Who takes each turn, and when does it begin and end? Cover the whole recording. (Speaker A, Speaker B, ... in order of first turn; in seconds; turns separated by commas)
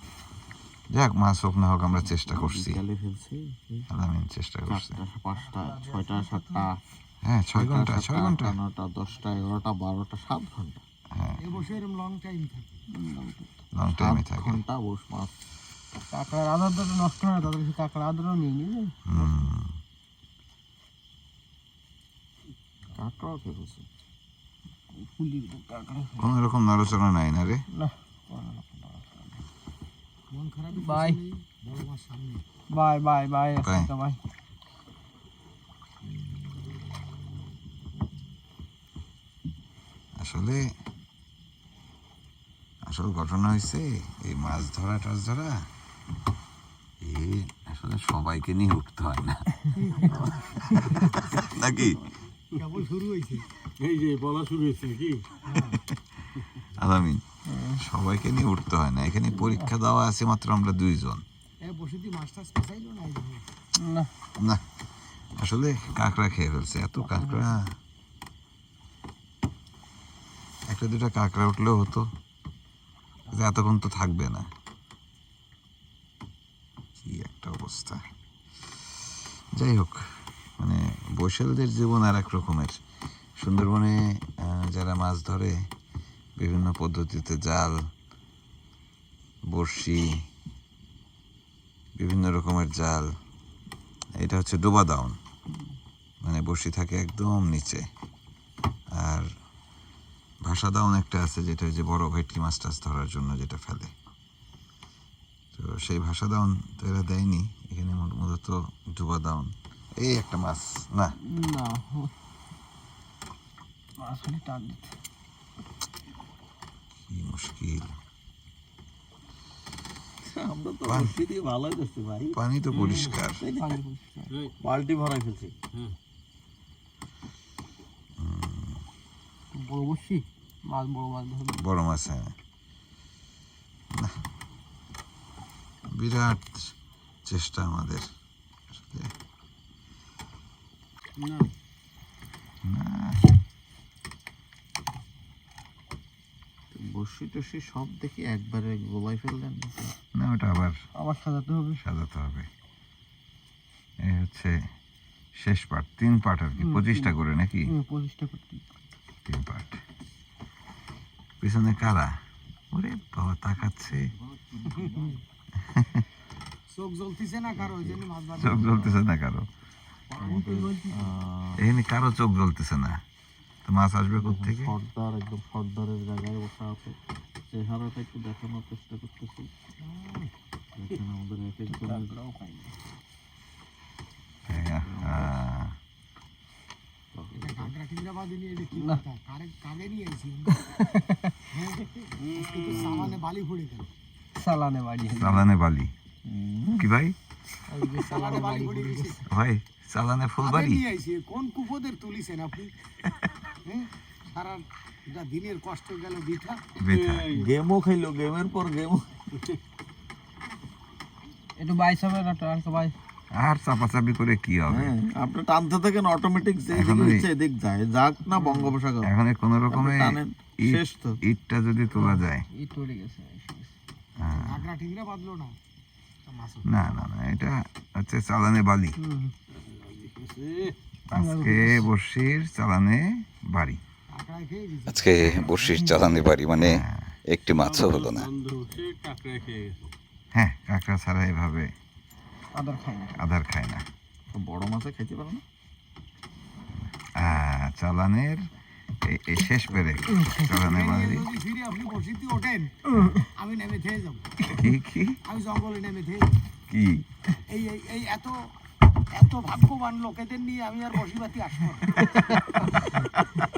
Speaker A: 0.9-2.8, Speaker B: 2.1-3.9, Speaker A: 3.9-5.0, Speaker B: 4.7-6.8, Speaker C: 5.4-6.6, Speaker A: 7.2-8.6, Speaker B: 7.5-10.8, Speaker A: 11.1-11.5, Speaker C: 11.4-12.8, Speaker D: 12.9-13.5, Speaker A: 13.7-14.6, Speaker B: 13.9-15.3, Speaker D: 16.1-19.0, Speaker A: 19.1-19.7, Speaker B: 22.9-23.9, Speaker D: 24.9-26.3, Speaker A: 26.2-27.6, Speaker D: 27.7-29.3, Speaker C: 30.3-32.4, Speaker D: 30.7-31.2, Speaker D: 32.7-34.2, Speaker A: 33.6-33.9, Speaker A: 40.1-40.7, Speaker A: 42.8-45.7, Speaker A: 47.0-49.6, Speaker C: 49.8-50.3, Speaker A: 50.1-52.0, Speaker C: 52.5-53.4, Speaker E: 53.8-55.2, Speaker C: 55.5-55.8, Speaker A: 56.7-61.2, Speaker D: 57.5-57.8, Speaker D: 59.4-59.6, Speaker C: 61.6-63.4, Speaker D: 63.8-64.1, Speaker A: 64.3-64.6, Speaker A: 65.3-67.7, Speaker D: 67.0-67.5, Speaker A: 70.7-72.1, Speaker A: 73.3-74.5, Speaker A: 77.0-78.0, Speaker A: 79.5-82.8, Speaker A: 83.4-85.7, Speaker A: 86.4-87.8, Speaker A: 89.4-90.3, Speaker A: 92.0-93.1, Speaker A: 94.1-95.2, Speaker A: 96.2-97.9, Speaker A: 98.9-99.3, Speaker A: 100.4-103.9, Speaker A: 105.5-111.2, Speaker D: 111.2-112.1, Speaker D: 114.0-114.9, Speaker A: 117.0-117.9, Speaker B: 120.2-122.4, Speaker A: 120.8-121.2, Speaker A: 122.3-123.4, Speaker E: 122.7-123.2, Speaker B: 123.4-123.8, Speaker D: 123.5-124.3, Speaker B: 124.6-125.5, Speaker A: 128.2-128.8, Speaker D: 129.5-131.6, Speaker A: 131.6-132.3, Speaker A: 133.9-134.2, Speaker A: 135.9-138.1, Speaker A: 138.7-139.1, Speaker E: 141.2-141.5, Speaker A: 142.6-143.3, Speaker B: 146.7-149.9, Speaker A: 150.1-150.8, Speaker D: 150.9-151.8, Speaker A: 151.8-152.5, Speaker A: 154.0-154.6, Speaker A: 155.3-157.7, Speaker D: 156.6-158.7, Speaker A: 159.2-159.8, Speaker A: 161.4-162.2, Speaker A: 162.7-164.1, Speaker B: 164.1-165.2, Speaker A: 165.6-166.0, Speaker C: 166.7-168.8, Speaker B: 167.6-168.0, Speaker A: 168.3-169.5, Speaker B: 168.6-168.9, Speaker B: 170.1-171.6, Speaker D: 170.2-171.1, Speaker A: 171.6-173.0, Speaker A: 173.6-174.7, Speaker B: 174.2-176.9, Speaker B: 177.5-179.5, Speaker C: 179.8-180.3, Speaker B: 180.7-182.1, Speaker D: 181.7-182.8, Speaker A: 184.5-185.7, Speaker B: 184.8-185.4, Speaker B: 187.1-187.8, Speaker C: 187.3-190.7, Speaker D: 188.7-189.0, Speaker D: 190.6-191.4, Speaker C: 191.5-193.9, Speaker E: 192.2-193.1, Speaker D: 192.8-193.1, Speaker D: 194.3-195.4, Speaker A: 195.1-195.9, Speaker B: 196.2-196.9, Speaker A: 196.8-197.2, Speaker D: 197.7-199.2, Speaker C: 198.0-199.2, Speaker A: 199.3-200.8, Speaker C: 200.4-202.7, Speaker C: 203.6-206.6, Speaker A: 206.8-207.4, Speaker E: 206.9-207.5, Speaker B: 207.3-209.1, Speaker D: 211.6-212.9, Speaker A: 213.3-214.9, Speaker B: 214.7-219.1, Speaker A: 216.7-217.2, Speaker D: 218.3-218.7, Speaker A: 219.0-222.4, Speaker B: 219.7-221.2, Speaker D: 221.9-223.7, Speaker A: 224.2-224.7, Speaker C: 224.2-225.5, Speaker C: 226.2-227.1, Speaker A: 226.6-229.0, Speaker D: 229.0-229.3, Speaker E: 229.5-230.8, Speaker A: 231.1-233.8, Speaker D: 231.1-231.9, Speaker C: 234.1-235.8, Speaker F: 234.9-238.3, Speaker A: 236.6-237.1, Speaker E: 237.4-239.9, Speaker A: 240.3-241.7, Speaker D: 242.5-243.2, Speaker A: 243.2-243.8, Speaker B: 244.3-245.4, Speaker A: 247.1-248.5, Speaker A: 249.0-251.3, Speaker D: 250.1-250.4, Speaker C: 250.4-252.7, Speaker D: 252.9-253.2, Speaker C: 253.3-254.3, Speaker A: 254.5-255.2, Speaker C: 255.2-256.4, Speaker A: 256.7-257.1, Speaker C: 257.5-258.4, Speaker C: 259.1-263.2, Speaker A: 262.2-262.7